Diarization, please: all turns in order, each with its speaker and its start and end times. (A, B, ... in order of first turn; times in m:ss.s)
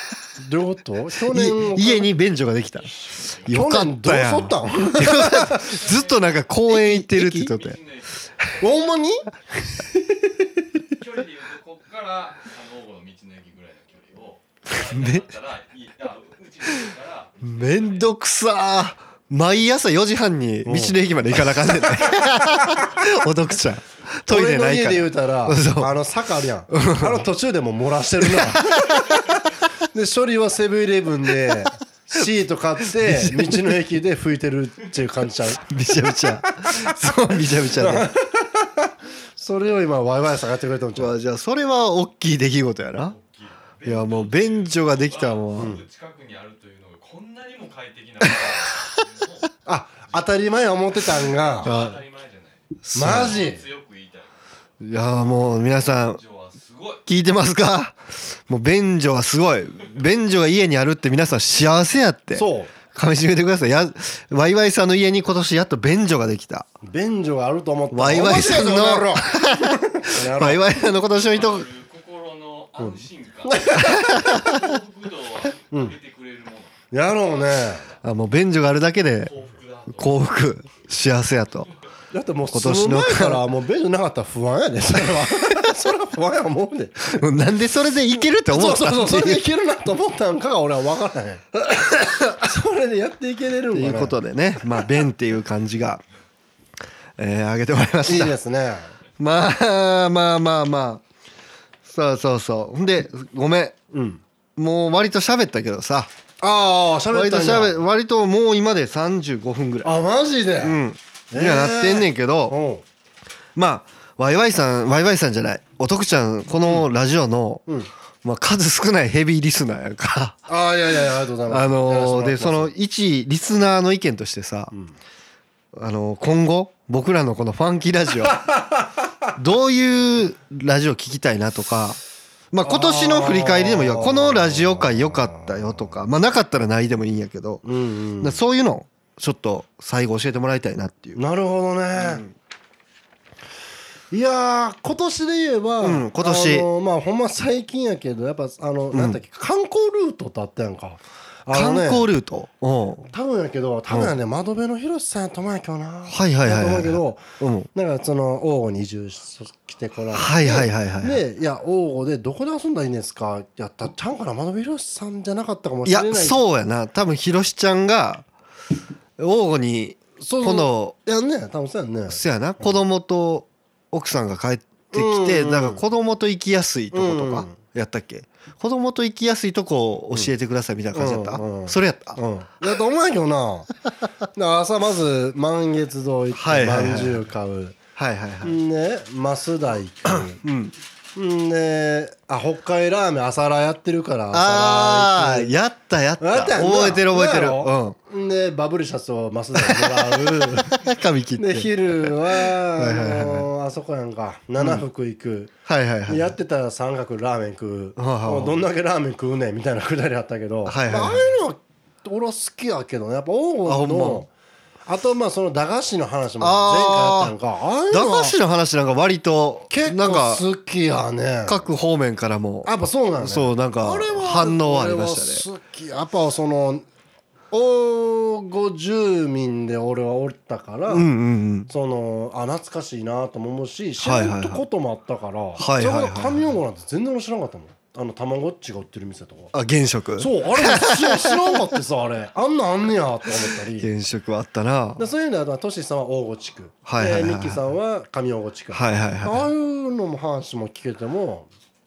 0:00.4-0:02.1 A
0:01.3-0:02.9 B
0:02.8-0:03.6 C
0:03.4-0:07.8 B
0:03.5-0:05.8 A
0:05.6-0:06.4 C
0:06.7-0:07.5 A
0:07.5-0:08.5 C
0:08.6-0:10.4 A
0:10.9-0:18.1 C
0:14.7-0:15.3 B
0:17.4-0:25.9 B
0:20.6-0:21.0 A
0:22.6-0:23.0 C
0:24.3-0:29.1 A
0:26.7-0:27.2 B
0:28.2-0:29.1 B
0:29.9-0:35.6 A
0:32.9-0:33.8 B
0:35.6-0:38.1 B
0:37.8-0:38.7 A
0:39.4-0:41.2 A
0:41.0-0:43.2 B
0:43.1-0:49.5 C
0:43.8-0:45.7 B
0:45.6-0:45.8 A
0:49.6-0:51.7 A
0:51.2-0:54.3 C
0:51.6-0:52.0 B
0:52.8-0:53.4 B
0:52.9-0:53.6 A
0:54.8-0:56.2 B
0:55.9-0:57.0 C
0:57.0-1:06.7 B
1:02.3-1:02.7 A
1:06.8-1:10.7 A
1:07.9-1:11.7 B
1:11.0-1:16.7 C
1:12.8-1:14.2 A
1:13.7-1:14.7 B
1:16.9-1:17.9 A
1:18.0-1:19.3 B
1:19.2-1:20.2 C
1:19.9-1:21.7 B
1:22.1-1:27.2 A
1:22.5-1:23.4 B
1:27.0-1:29.4 B
1:28.5-1:34.2 A
1:33.7-1:36.0 B
1:37.2-1:38.4 B
1:38.0-1:38.9 A
1:39.2-1:41.0 B
1:41.8-1:43.8 B
1:43.9-1:44.2 A
1:44.6-1:46.1 B
1:46.4-1:47.8 A
1:47.1-1:49.9 B
1:49.8-1:50.8 A
1:50.6-1:52.6 B
1:51.3-1:52.8 A
1:53.6-1:57.6 B
1:58.2-2:00.4 B
2:00.5-2:02.7 A
2:01.5-2:04.7 B
2:05.7-2:08.4 B
2:08.4-2:08.7 A
2:09.4-2:12.0 B
2:12.5-2:17.6 B
2:12.6-2:15.9 A
2:17.6-2:18.4 A
2:18.2-2:21.2 B
2:21.2-2:22.2 A
2:22.0-2:22.3 B
2:24.1-2:32.1 A
2:25.8-2:26.7 B
2:28.9-2:29.2 B
2:31.5-2:33.1 B
2:33.1-2:46.4 A
2:36.1-2:37.7 B
2:40.1-2:41.2 B
2:45.8-2:48.2 B
2:49.2-2:50.9 B
2:50.2-2:52.7 A
2:52.1-3:02.2 B
2:54.9-2:55.8 A
2:56.9-2:57.6 A
3:00.9-3:03.7 A
3:04.3-3:07.8 A
3:06.3-3:07.2 B
3:08.0-3:08.6 B
3:08.4-3:10.4 A
3:10.1-3:10.7 B
3:11.2-3:15.5 A
3:14.3-3:18.0 B
3:16.2-3:20.8 A
3:19.5-3:23.5 B
3:21.4-3:25.5 A
3:24.6-3:24.8 B
3:25.6-3:26.3 B
3:26.1-3:34.3 A
3:28.0-3:28.6 B
3:30.6-3:31.3 B
3:33.6-3:34.2 B
3:34.9-3:38.4 A
3:36.4-3:37.3 B
3:37.9-3:40.4 B
3:39.7-3:41.6 A
3:41.5-3:45.4 B
3:42.6-3:46.8 A
3:47.5-3:51.1 A
3:50.9-3:51.7 B
3:51.7-3:59.5 A
3:54.0-3:54.6 B
3:55.6-3:56.5 B
3:59.5-4:01.6 B
4:00.2-4:03.9 A
4:03.8-4:05.0 B
4:05.0-4:11.5 A
4:06.8-4:07.6 B
4:08.7-4:09.5 B